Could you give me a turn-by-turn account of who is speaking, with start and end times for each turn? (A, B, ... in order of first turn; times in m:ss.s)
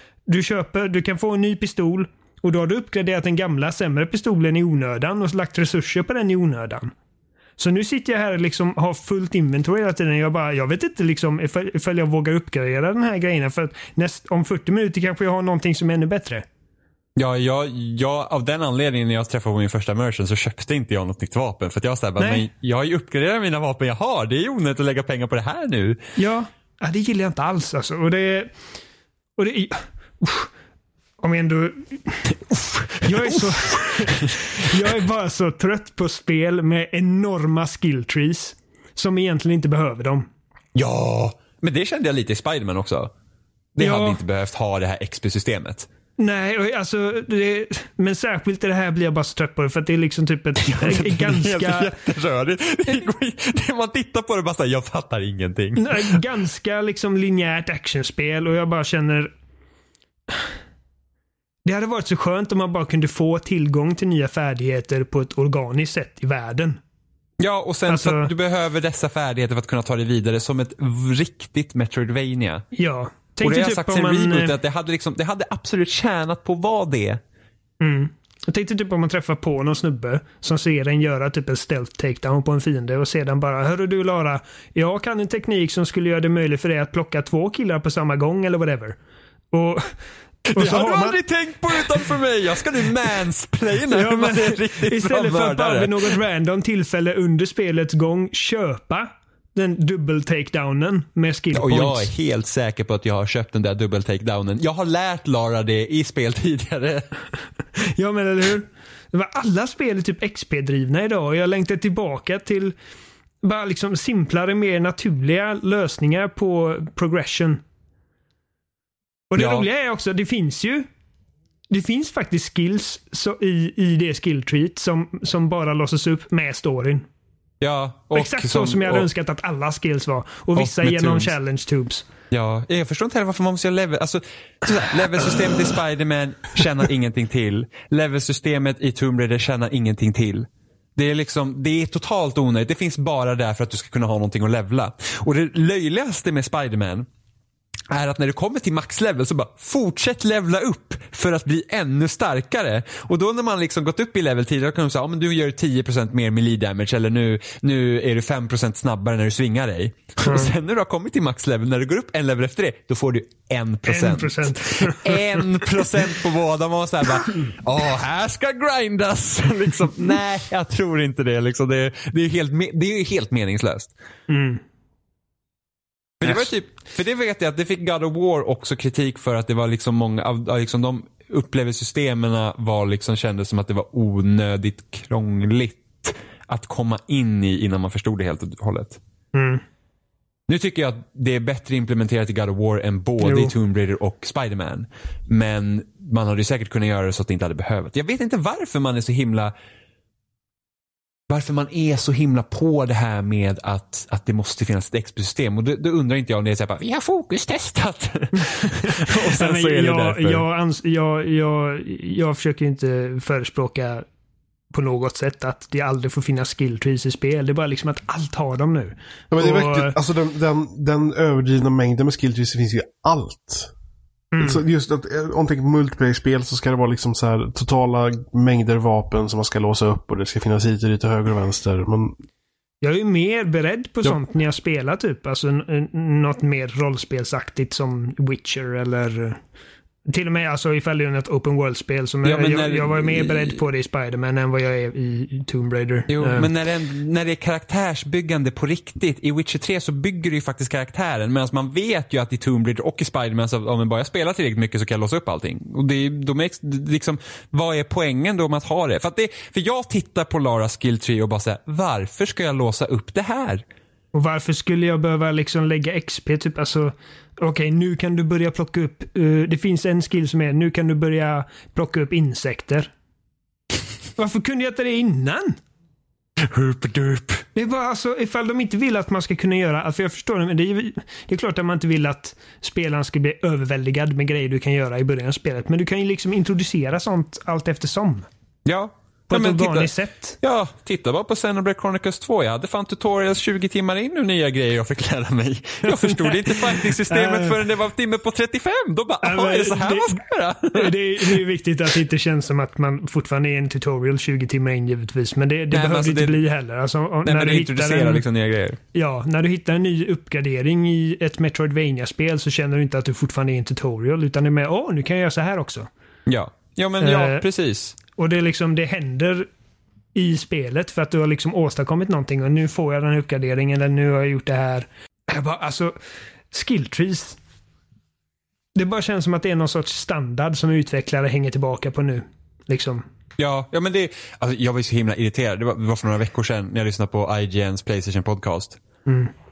0:00.3-0:06.9 A
0:07.6-0:16.4 A
0:17.2-0:26.0 B
0:22.2-0:22.4 A
0:26.2-0:28.5 A
0:29.4-0:30.5 A
0:31.2-0:32.3 A
0:32.5-0:34.4 B
0:33.0-0:40.2 A
0:40.7-0:43.1 B
0:43.7-0:45.9 B
0:43.8-0:44.2 A
0:46.2-0:51.9 A
0:50.6-0:56.2 B
0:55.8-0:59.3 A
1:01.6-1:06.8 A
1:07.4-1:12.7 B
1:07.9-1:08.3 A
1:12.7-1:14.6 A
1:13.4-1:17.2 B
1:17.8-1:29.0 A
1:29.5-1:29.9 A
1:30.5-1:31.2 A
1:30.5-1:36.2 B
1:33.9-1:42.1 A
1:41.5-1:47.1 B
1:47.9-1:52.7 A
1:53.4-1:57.6 A
1:59.3-2:00.9 A
1:59.4-1:59.6 B
2:01.7-2:07.1 A
2:07.6-2:09.1 B
2:08.1-2:12.0 A
2:10.6-2:11.3 B
2:12.3-2:27.1 B
2:27.9-2:53.9 B
2:40.2-2:40.5 A
2:43.9-2:45.9 A
2:54.3-2:54.6 A
2:56.2-3:09.0 B
2:56.2-2:56.5 A
3:09.3-3:09.6 A
3:10.5-3:19.5 B
3:13.2-3:13.5 A
3:21.3-3:30.4 B
3:28.4-3:34.0 A
3:34.7-3:40.0 A
3:39.3-3:43.7 C
3:44.3-3:44.6 A
3:44.4-3:52.2 C
3:52.8-3:59.4 A
4:00.1-4:06.5 A
4:02.2-4:03.6 B
4:06.1-4:23.6 B
4:24.1-4:32.9 A
4:34.2-4:35.6 A
4:36.4-4:37.4 B
4:37.5-4:48.3 A
4:48.6-5:01.4 B
4:49.3-4:50.4 A
4:55.8-4:57.6 A
4:59.2-5:00.2 A
5:00.7-5:08.2 A
5:05.7-5:06.4 B
5:07.2-5:08.8 B
5:08.9-5:15.9 A
5:16.3-5:18.0 B
5:17.0-5:17.4 A
5:18.2-5:19.5 A
5:20.1-5:25.9 A
5:26.5-5:27.4 A
5:28.8-5:33.0 A
5:33.4-5:38.8 B
5:39.1-5:39.3 A